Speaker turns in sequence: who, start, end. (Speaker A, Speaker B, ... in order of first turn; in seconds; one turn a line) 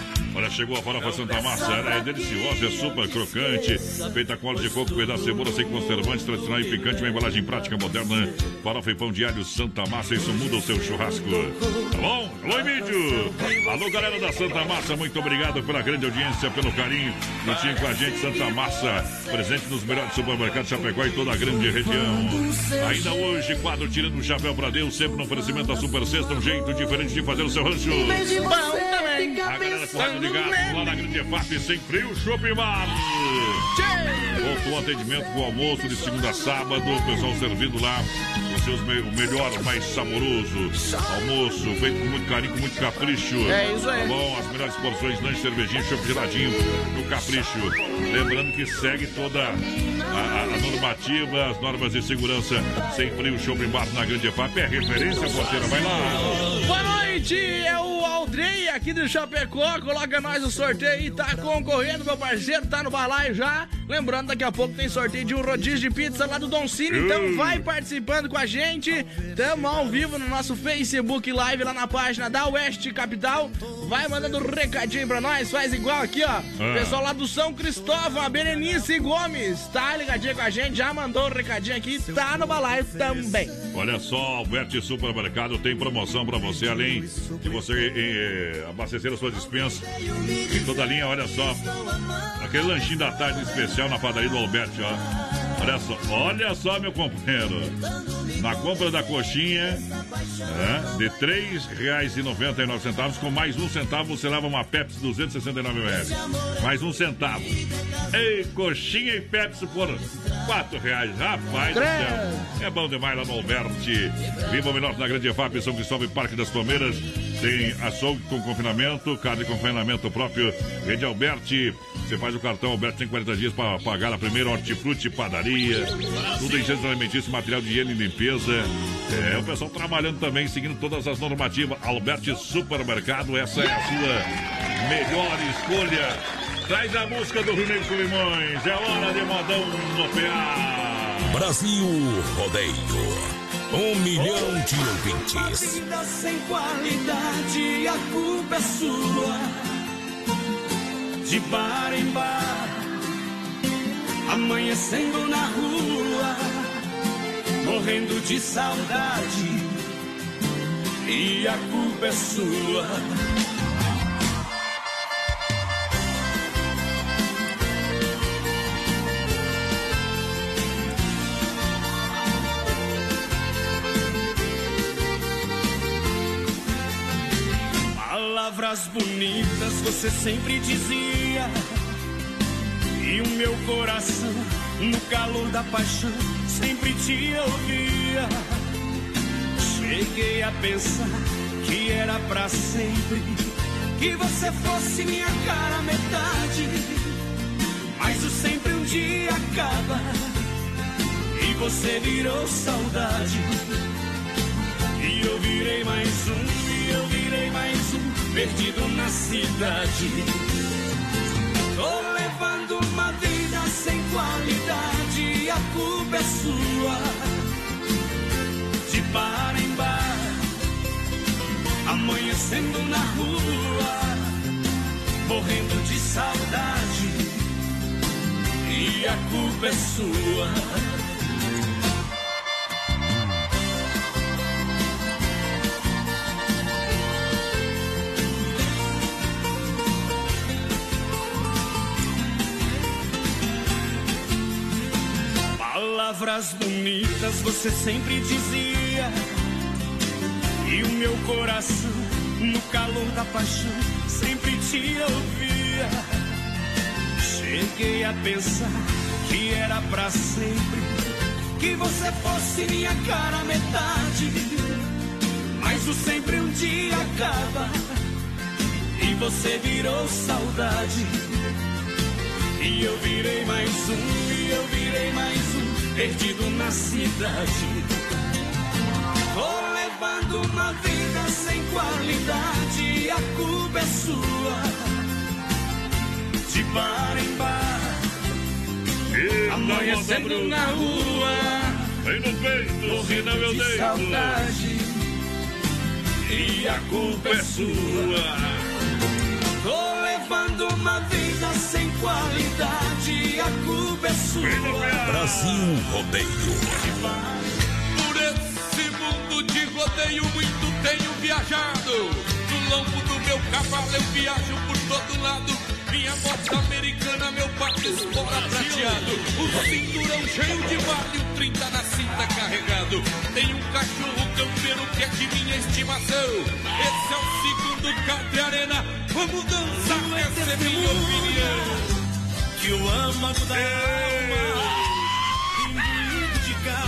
Speaker A: 0.3-28.4
Speaker B: 28.3-31.0
Speaker A: 29.4-33.7
Speaker B: 33.8-34.4
Speaker A: 34.4-56.6
Speaker B: 43.5-44.1
Speaker B: 56.6-83.6
Speaker A: 66.9-67.7
Speaker A: 76.6-77.0
Speaker A: 83.7-89.9
Speaker A: 90.5-91.7
Speaker A: 92.4-95.0
Speaker A: 95.6-97.8
Speaker A: 98.4-99.9
Speaker A: 100.5-141.4
Speaker B: 111.7-112.4
Speaker C: 141.3-145.8
Speaker D: 146.7-149.0
Speaker D: 151.4-152.6
Speaker D: 154.4-155.8
Speaker D: 157.8-159.3
Speaker D: 161.2-162.9
Speaker D: 178.2-181.5
Speaker D: 183.1-184.3
Speaker D: 184.9-186.1
Speaker D: 186.7-188.3
Speaker D: 190.1-191.0
Speaker D: 191.9-193.2
Speaker D: 194.1-196.7
Speaker D: 198.1-199.9
Speaker D: 201.4-203.4
Speaker D: 205.1-210.2
Speaker D: 212.2-216.9
Speaker D: 219.1-220.2
Speaker D: 221.9-223.9
Speaker D: 225.6-226.2
Speaker D: 228.8-230.6
Speaker D: 245.7-249.1
Speaker D: 250.7-251.9
Speaker D: 252.4-255.9
Speaker D: 257.4-258.7
Speaker D: 259.4-260.8
Speaker D: 261.6-264.4
Speaker D: 265.7-267.7
Speaker D: 269.0-271.1
Speaker D: 272.6-277.8
Speaker D: 279.6-284.6
Speaker D: 286.6-287.8
Speaker A: 289.1-290.8
Speaker B: 289.6-291.8
Speaker A: 292.0-294.5
Speaker B: 293.7-294.9
Speaker D: 296.4-297.9
Speaker A: 296.4-298.7
Speaker D: 299.7-304.7
Speaker A: 304.4-305.9
Speaker C: 305.0-306.9
Speaker E: 307.9-331.8
Speaker D: 318.6-318.9
Speaker A: 333.5-334.9